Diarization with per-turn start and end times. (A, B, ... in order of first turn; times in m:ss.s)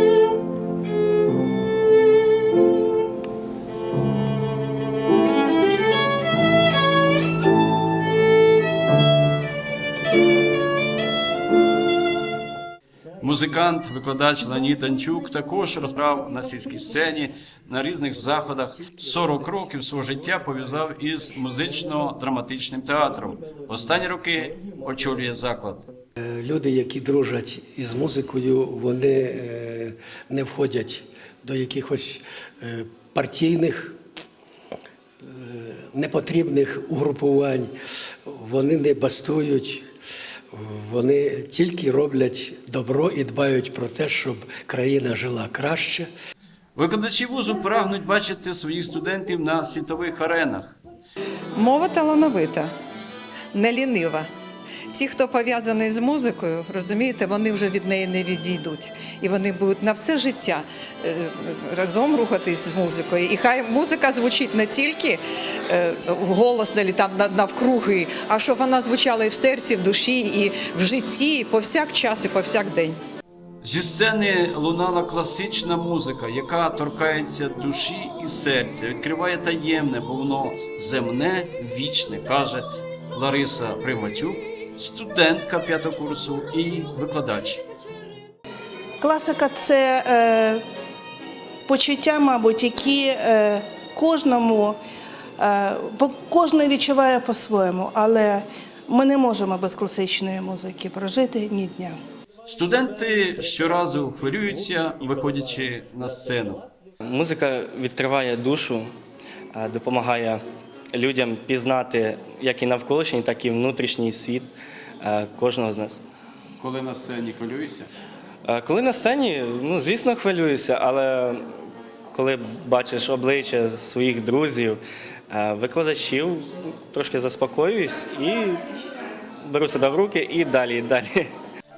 0:13.2-0:25.8 A
0:19.0-0:20.6 B
0:26.2-0:34.0 B
0:35.2-0:37.7 B
0:38.3-0:39.8 B
0:40.5-0:46.1 B
0:46.7-0:50.8 A
0:51.6-0:52.7 C
0:53.5-0:54.3 C
0:54.9-1:13.0 C
1:13.6-1:27.6 A
1:29.0-1:30.6 D
1:31.7-1:34.8 D
1:35.4-1:42.0 D
1:42.4-1:46.6 A
1:47.0-1:48.9 E
1:49.5-1:50.4 E
1:50.9-1:54.5 E
1:55.0-1:56.0 E
1:56.6-1:57.9 A
1:58.4-2:01.4 E
2:02.1-2:08.6 E
2:09.4-2:11.2 E